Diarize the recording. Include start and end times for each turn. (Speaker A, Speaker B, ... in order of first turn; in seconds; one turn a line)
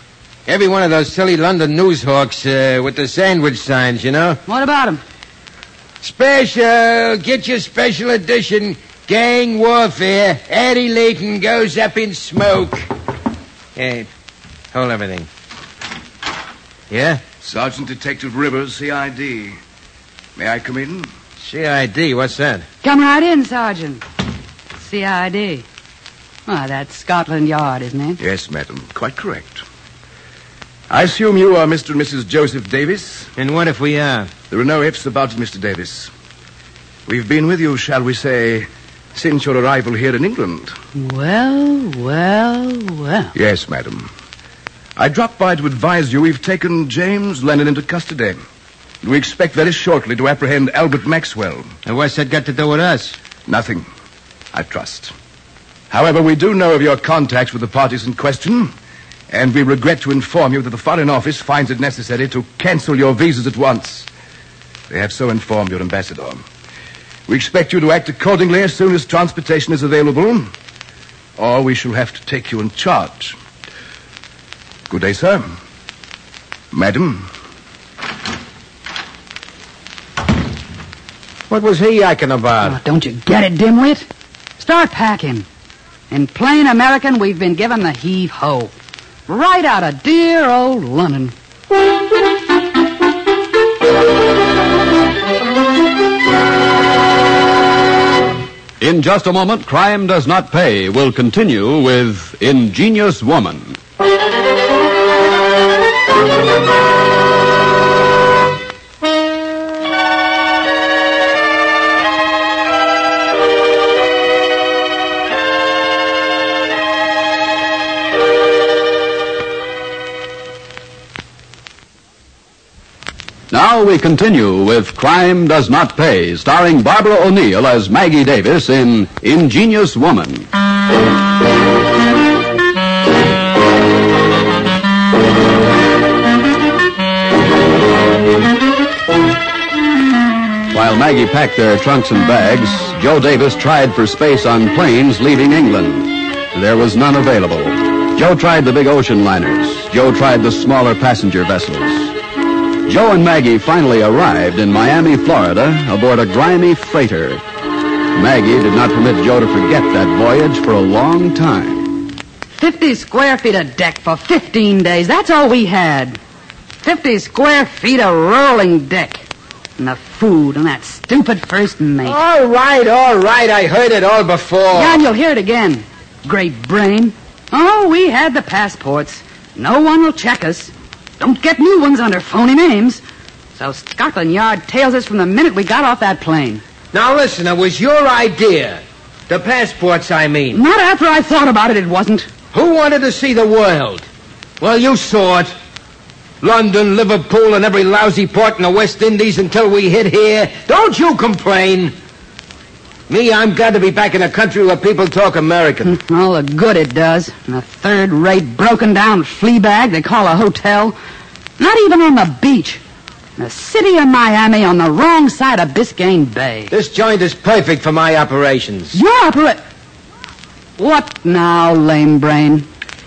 Speaker A: 0.5-4.4
Speaker B: 4.5-5.0
Speaker A: 6.0-12.9
Speaker A: 13.8-14.1
Speaker A: 14.7-15.3
Speaker A: 16.9-17.2
Speaker C: 17.4-19.6
Speaker C: 20.4-21.1
Speaker A: 21.4-22.7
Speaker B: 22.8-24.0
Speaker B: 24.8-25.6
Speaker B: 26.5-28.2
Speaker C: 28.2-29.6
Speaker C: 30.9-33.3
Speaker A: 33.4-34.3
Speaker C: 34.5-36.1
Speaker C: 37.1-40.7
Speaker B: 41.0-43.3
Speaker C: 43.4-44.1
Speaker C: 45.0-48.4
Speaker C: 49.0-51.7
Speaker A: 51.9-53.2
Speaker C: 53.5-53.9
Speaker C: 54.5-55.1
Speaker C: 55.9-58.7
Speaker C: 59.3-64.1
Speaker C: 64.9-66.4
Speaker C: 67.3-70.5
Speaker C: 71.4-73.4
Speaker C: 74.9-75.6
Speaker C: 76.7-77.3
Speaker A: 81.5-82.8
Speaker B: 82.7-84.1
Speaker B: 84.6-85.5
Speaker B: 86.1-88.7
Speaker B: 89.3-91.3
Speaker D: 98.8-103.8
Speaker D: 123.5-130.5
Speaker D: 140.7-152.2
Speaker D: 152.9-157.4
Speaker D: 158.2-161.9
Speaker B: 162.6-166.2
Speaker B: 166.8-169.3
Speaker B: 169.8-172.2
Speaker A: 172.1-175.0
Speaker B: 174.7-183.0
Speaker B: 183.6-186.6
Speaker A: 186.9-190.6
Speaker B: 190.5-192.3
Speaker A: 192.5-194.1
Speaker A: 194.6-195.5
Speaker A: 196.4-201.9
Speaker A: 203.1-205.9
Speaker B: 205.8-211.0
Speaker B: 211.6-212.8
Speaker B: 213.4-216.7
Speaker A: 216.7-219.0
Speaker B: 218.9-219.6
Speaker B: 220.8-222.7